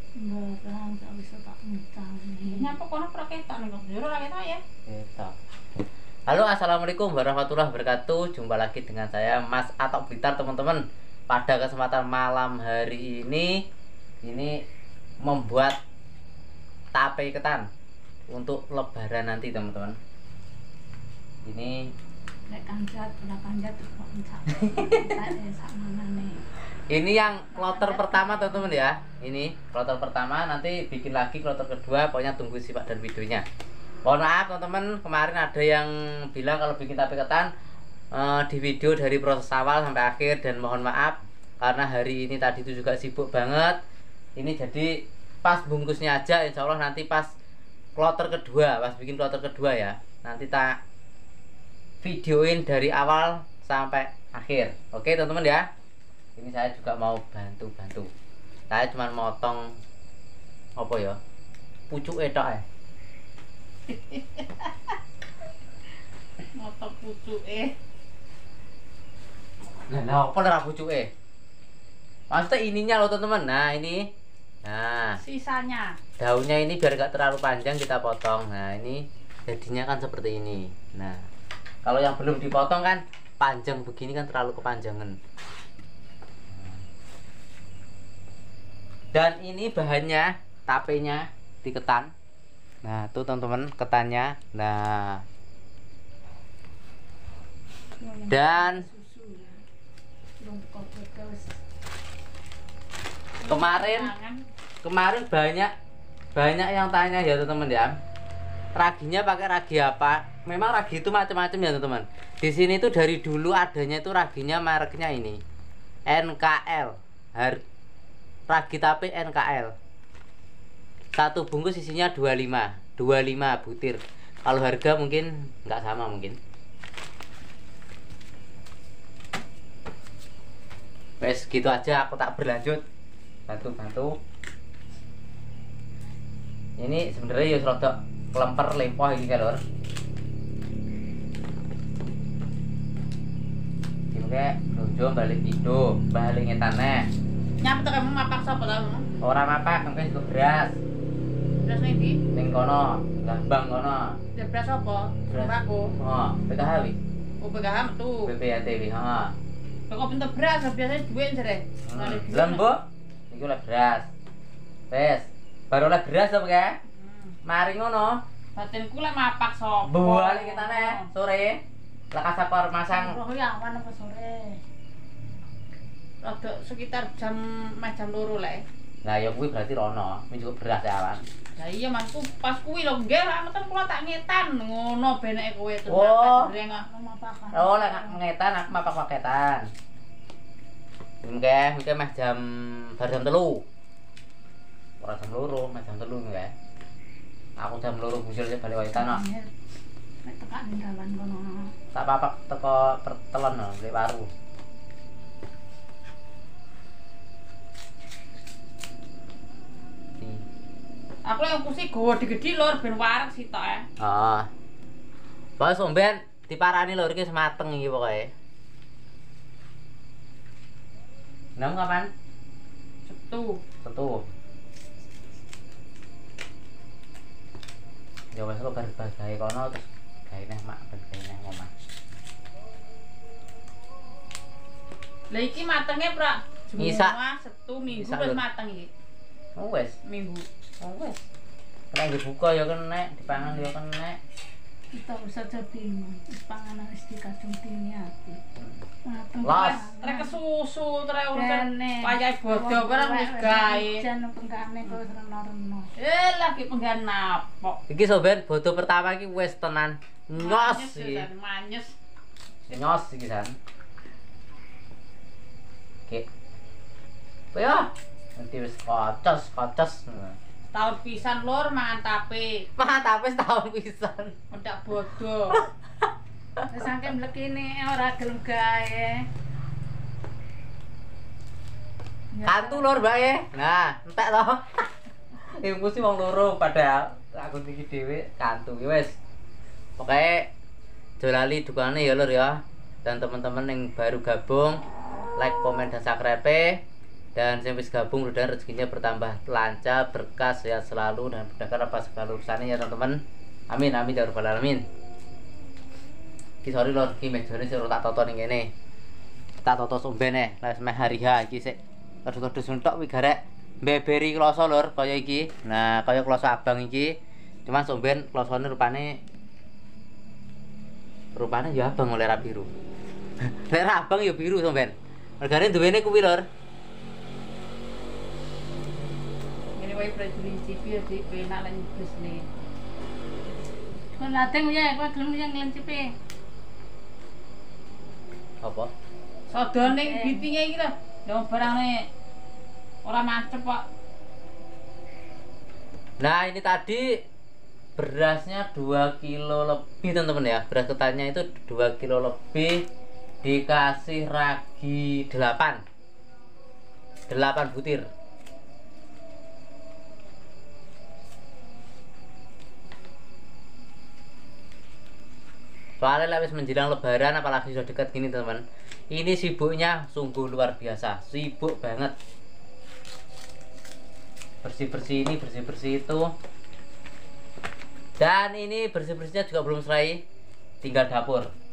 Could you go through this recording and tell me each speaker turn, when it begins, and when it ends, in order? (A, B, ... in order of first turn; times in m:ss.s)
0:00.2-0:02.7 A
0:02.4-0:04.6 B
0:04.9-0:05.3 C
0:06.3-0:13.5 C
0:14.2-0:14.5 C
0:15.2-0:15.8 C
0:16.9-0:17.7 C
0:18.3-0:20.0 C
0:21.4-0:21.9 C
0:22.5-0:26.4 A
0:24.6-0:25.0 C
0:26.9-0:33.4 C
0:27.5-0:28.8 A
0:34.0-0:37.5 C
0:38.1-0:43.8 C
0:44.4-0:44.9 C
0:45.4-0:47.3 C
0:48.0-0:50.7 C
0:52.0-0:55.6 C
0:56.4-0:58.1 C
0:58.7-0:59.6 C
1:00.8-1:01.2 C
1:01.9-1:02.6 C
1:03.9-1:04.9 B
1:06.5-1:07.7 B
1:09.9-1:11.1 C
1:12.3-1:14.1 C
1:14.6-1:15.2 C
1:15.2-1:16.0 B
1:16.2-1:21.2 C
1:21.8-1:25.2 C
1:26.5-1:26.8 C
1:29.1-1:32.1 C
1:32.8-1:35.2 C
1:38.0-1:39.6 A
1:38.3-1:38.8 C
1:40.4-1:41.5 A
1:43.4-1:44.1 C
1:43.4-1:44.4 B
1:44.8-1:45.7 C
1:46.3-1:47.9 C
1:48.7-1:55.4 C
1:56.1-1:57.6 C
1:58.5-1:59.7 C
2:01.1-2:06.4 C
2:11.2-2:12.8 C
2:13.5-2:14.2 C
2:16.8-2:19.6 C
2:24.1-2:27.0 C
2:27.6-2:29.0 B
2:29.2-2:30.7 C
2:31.6-2:32.2 B
2:32.3-2:34.2 C
2:34.3-2:35.9 B
2:35.3-2:37.0 C
2:37.4-2:38.3 B
2:38.2-2:39.3 C
2:39.9-2:42.6 B
2:41.8-2:44.1 C
2:44.9-2:46.8 C
2:46.9-2:47.4 B
2:47.4-2:48.2 C
2:48.6-2:51.1 B
2:49.8-2:51.6 C
2:52.1-2:53.2 C
2:52.9-2:54.6 A
2:56.2-2:58.6 B
2:59.0-3:01.2 C
3:01.6-3:06.8 B
3:05.9-3:06.5 C
3:06.7-3:08.2 A
3:07.5-3:09.6 C
3:11.2-3:13.6 C
3:15.0-3:16.5 C
3:17.6-3:19.2 C
3:18.9-3:19.5 A
3:20.2-3:21.7 A
3:21.9-3:24.3 C
3:31.2-3:33.8 B
3:34.0-3:34.5 C
3:35.6-3:38.3 C
3:41.6-3:42.1 C
3:43.0-3:43.6 B
3:43.8-3:44.2 C
3:48.3-3:51.7 C
3:55.3-3:58.9 B
3:56.8-3:57.2 C
3:57.9-3:58.4 C
3:59.6-4:00.0 C
4:00.0-4:00.5 B
4:00.8-4:01.2 C
4:01.9-4:04.2 C
4:04.9-4:08.4 A
4:08.6-4:08.8 C
4:09.0-4:10.4 A
4:09.4-4:09.8 C
4:09.5-4:14.0 B
4:11.3-4:15.9 A
4:16.0-4:17.8 B
4:17.9-4:21.3 C
4:20.4-4:21.9 B
4:22.7-4:23.5 C
4:27.5-4:30.4 C
4:30.7-4:32.5 B
4:32.8-4:34.3 C
4:34.5-4:35.6 B
4:36.7-4:39.2 A
4:42.3-4:42.9 A
4:42.4-4:49.2 C
4:50.0-4:50.5 C
4:51.2-4:54.8 C
4:55.4-4:56.8 C
4:57.4-5:03.2 C
5:03.7-5:04.8 C
5:06.6-5:08.7 C
5:09.6-5:17.1 C
5:17.6-5:19.2 C
5:21.3-5:22.7 C
5:23.4-5:26.4 C
5:29.8-5:32.4 B
5:34.2-5:36.1 A
5:38.6-5:38.9 C
5:39.5-5:42.0 B
5:39.8-5:40.5 A
5:43.0-5:43.8 B
5:46.2-5:47.1 C
5:48.0-5:52.8 C
5:53.4-5:55.8 C
5:57.3-5:58.1 C
6:06.0-6:12.1 C
6:14.6-6:16.3 C
6:18.2-6:20.2 C
6:20.8-6:21.5 C